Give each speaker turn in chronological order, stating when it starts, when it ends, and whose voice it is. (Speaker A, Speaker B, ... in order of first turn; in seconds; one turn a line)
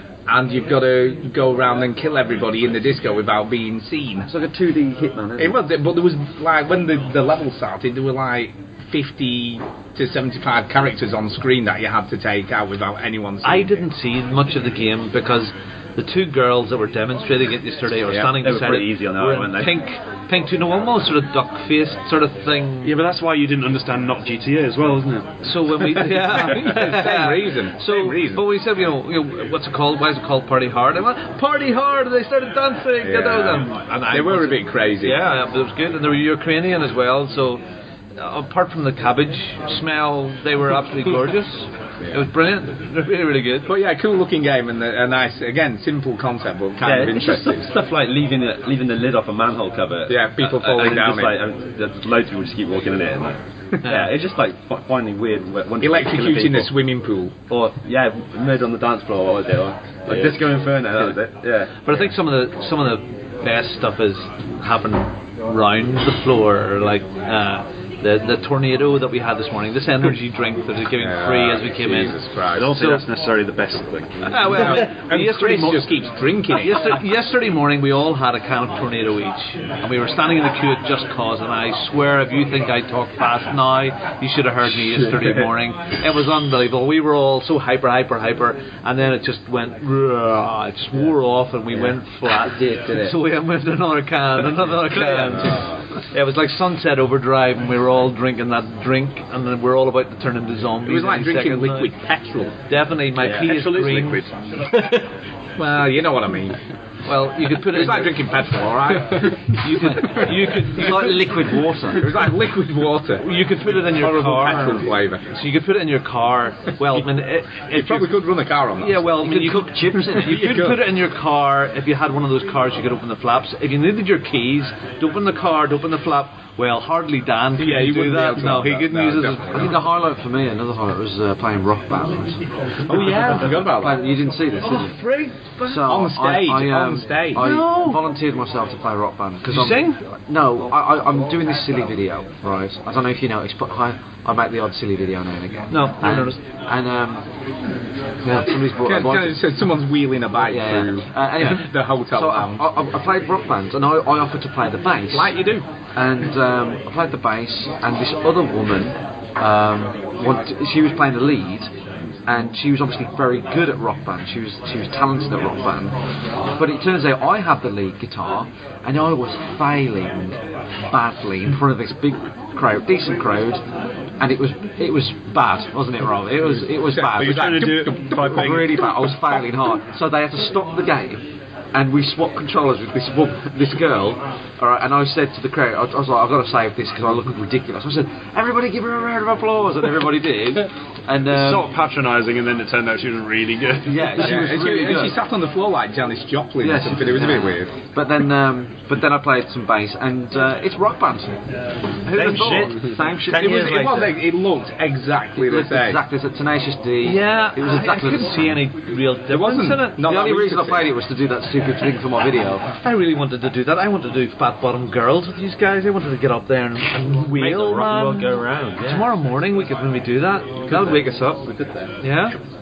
Speaker A: 0.3-4.3
Speaker B: 4.3-5.6
Speaker A: 5.4-13.8
Speaker C: 13.4-23.0
Speaker D: 18.1-19.8
Speaker E: 22.8-26.1
Speaker C: 25.4-37.6
Speaker A: 26.3-28.4
Speaker A: 33.0-35.2
Speaker C: 38.2-43.7
Speaker A: 43.6-47.7
Speaker D: 46.8-56.7
Speaker A: 50.1-51.4
Speaker C: 53.8-54.1
Speaker A: 55.8-57.3
Speaker D: 57.5-61.8
Speaker A: 60.1-60.4
Speaker C: 61.8-72.2
Speaker A: 71.0-72.7
Speaker E: 72.5-74.5
Speaker C: 72.7-73.0
Speaker C: 74.2-75.9
Speaker A: 74.4-77.0
Speaker C: 76.5-101.9
Speaker B: 91.7-93.2
Speaker A: 95.0-95.7
Speaker B: 95.2-95.4
Speaker A: 100.8-102.5
Speaker C: 102.7-104.2
Speaker E: 103.2-104.3
Speaker A: 105.6-106.5
Speaker C: 107.0-108.2
Speaker A: 107.6-110.3
Speaker C: 109.5-111.2
Speaker B: 109.8-112.2
Speaker A: 111.9-115.2
Speaker C: 113.2-118.1
Speaker A: 117.7-119.1
Speaker C: 118.8-129.7
Speaker B: 119.2-120.6
Speaker A: 120.2-120.8
Speaker A: 127.6-129.7
Speaker B: 129.5-132.4
Speaker A: 132.9-134.0
Speaker C: 132.9-133.5
Speaker B: 133.0-134.9
Speaker C: 134.6-135.9
Speaker B: 135.6-147.2
Speaker A: 135.8-137.4
Speaker C: 137.3-138.0
Speaker C: 139.4-140.0
Speaker C: 145.7-146.4
Speaker B: 148.2-149.4
Speaker A: 148.8-152.6
Speaker B: 150.4-155.3
Speaker A: 155.1-155.6
Speaker B: 155.9-161.7
Speaker B: 162.3-165.9
Speaker B: 166.5-170.4
Speaker B: 170.9-173.6
Speaker B: 174.2-177.6
Speaker A: 176.8-179.1
Speaker E: 177.1-179.0
Speaker B: 178.2-191.7
Speaker E: 191.3-194.4
Speaker B: 193.8-195.2
Speaker A: 194.2-197.7
Speaker B: 196.6-201.3
Speaker B: 202.1-203.7
Speaker D: 202.1-204.2
Speaker A: 203.4-206.0
Speaker B: 205.3-208.5
Speaker C: 207.0-210.0
Speaker A: 209.3-210.9
Speaker B: 210.0-212.6
Speaker C: 212.8-221.4
Speaker D: 217.3-219.1
Speaker D: 220.7-221.0
Speaker C: 222.0-222.3